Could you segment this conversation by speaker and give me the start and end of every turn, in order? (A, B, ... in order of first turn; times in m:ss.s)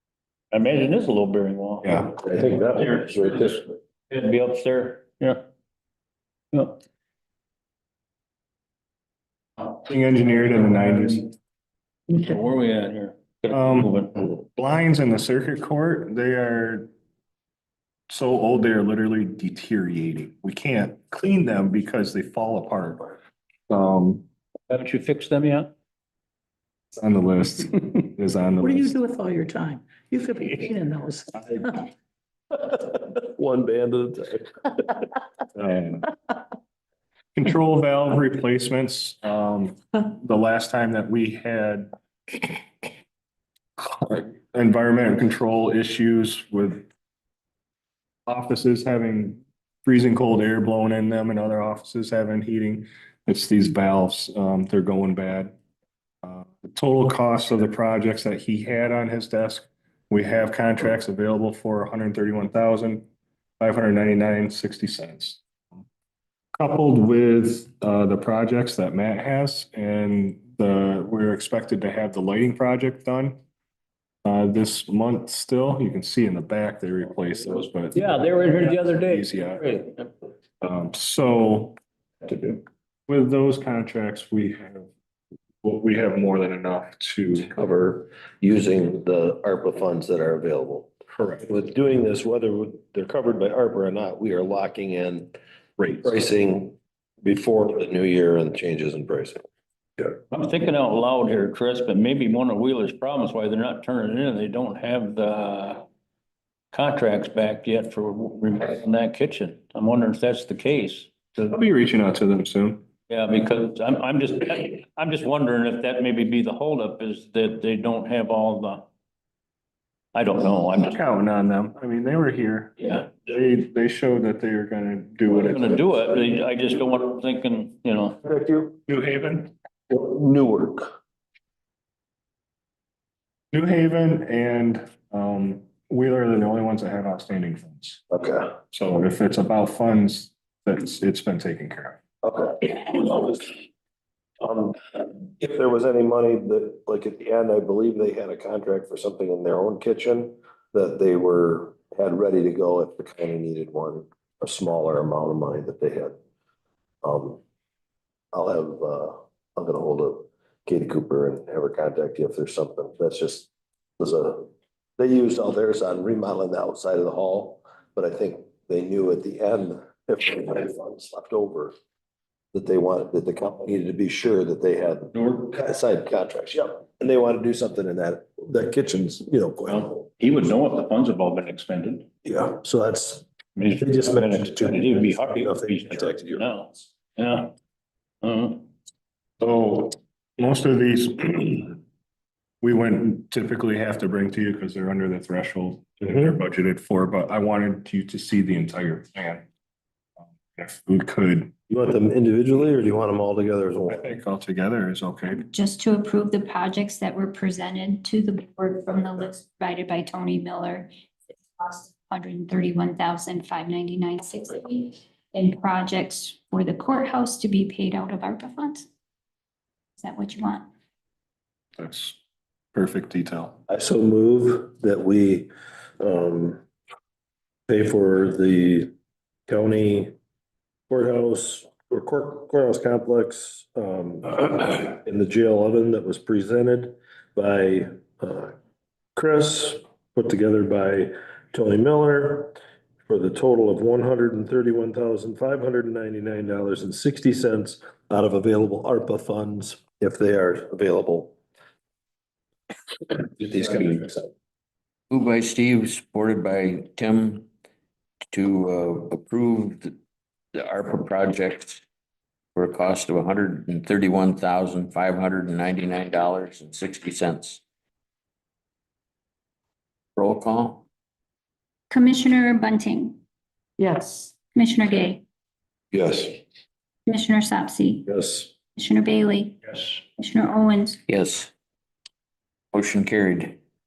0:00.5-0:02.0 A
0:01.8-0:02.1 B
0:02.0-0:03.7 C
0:02.8-0:05.4 A
0:06.5-0:06.8 A
0:09.8-0:11.3 B
0:12.1-0:14.2 A
0:13.5-0:16.9 B
0:18.1-0:24.2 B
0:24.7-0:25.7 A
0:27.0-0:29.0 B
0:28.6-0:31.7 D
0:31.4-0:31.8 B
0:33.1-0:34.5 C
0:35.6-0:36.1 B
0:37.4-0:41.9 B
0:43.8-0:46.9 B
0:48.3-0:55.5 B
0:56.2-1:03.0 B
1:03.6-1:05.8 B
1:06.6-1:13.4 B
1:14.2-1:19.8 B
1:17.9-1:20.0 A
1:20.6-1:21.8 B
1:23.1-1:24.9 B
1:25.6-1:27.5 B
1:27.5-1:30.9 C
1:31.2-1:31.5 B
1:31.4-1:35.4 C
1:35.8-1:36.1 B
1:36.0-1:39.4 C
1:40.3-1:45.8 A
1:46.7-1:51.1 A
1:51.4-1:52.8 B
1:53.1-1:58.9 A
2:00.1-2:01.0 A
2:00.9-2:05.9 B
2:05.3-2:08.2 A
2:08.2-2:08.8 C
2:08.9-2:09.5 B
2:09.9-2:10.9 C
2:13.5-2:18.0 B
2:18.1-2:18.5 C
2:18.7-2:22.0 B
2:22.2-2:23.5 C
2:24.4-2:36.2 C
2:37.0-2:37.4 C
2:38.3-2:51.7 C
2:52.5-3:00.1 C
2:55.1-2:55.5 A
2:59.7-3:02.1 A
3:02.2-3:06.5 C
3:03.6-3:07.5 A
3:08.2-3:08.7 A
3:09.4-3:11.8 B
3:12.6-3:19.5 B
3:20.3-3:21.5 B
3:21.7-3:24.1 C
3:23.9-3:25.5 B
3:25.5-3:38.9 E
3:40.0-3:40.7 E
3:41.8-3:42.2 B
3:42.7-3:43.6 B
3:43.7-3:46.6 C
3:47.7-3:48.9 C
3:49.5-3:50.1 C
3:50.9-3:58.5 C
3:59.2-4:11.3 C
4:13.1-4:14.3 C
4:15.1-4:17.5 F
4:18.3-4:19.9 F
4:20.6-4:21.8 F
4:22.6-4:27.6 F
4:30.2-4:30.8 F
4:31.9-4:33.2 E
4:34.6-4:35.2 E
4:35.9-4:36.4 C
4:37.1-4:38.1 E
4:38.1-4:38.5 C
4:38.8-4:41.0 E
4:41.1-4:41.5 F
4:42.7-4:43.6 F